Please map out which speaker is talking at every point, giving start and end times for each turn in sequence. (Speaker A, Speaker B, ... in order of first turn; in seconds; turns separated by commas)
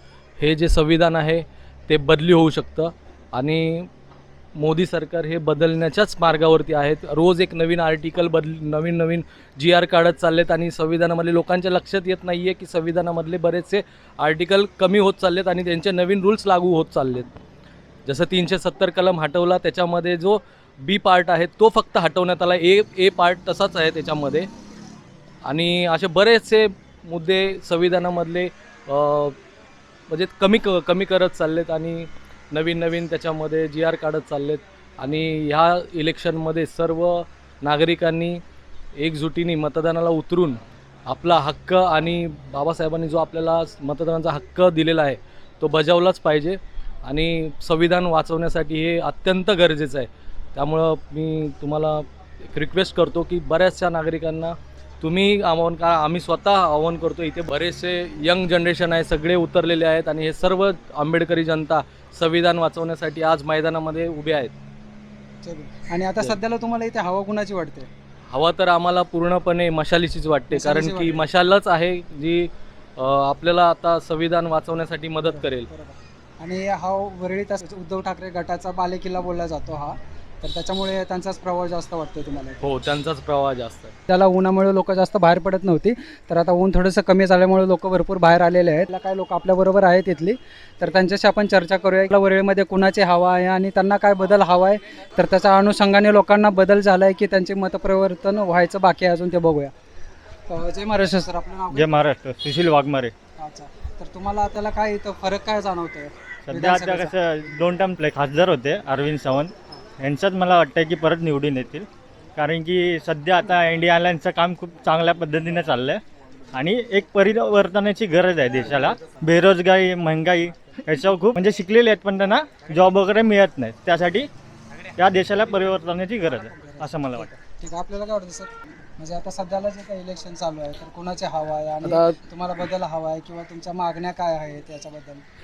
Speaker A: 0.4-3.9, Speaker A: 4.5-17.3, Speaker A: 18.1-24.5, Speaker A: 25.4-29.4, Speaker A: 30.1-38.4, Speaker A: 39.0-64.5, Speaker B: 65.4-67.9, Speaker A: 68.3-75.7, Speaker B: 70.5-71.2, Speaker B: 75.3-82.7, Speaker A: 82.6-83.9, Speaker B: 84.1-99.7, Speaker B: 100.5-101.8, Speaker C: 101.7-103.1, Speaker B: 103.4-107.1, Speaker C: 106.5-116.0, Speaker C: 116.5-124.3, Speaker C: 125.0-127.3, Speaker B: 126.5-135.2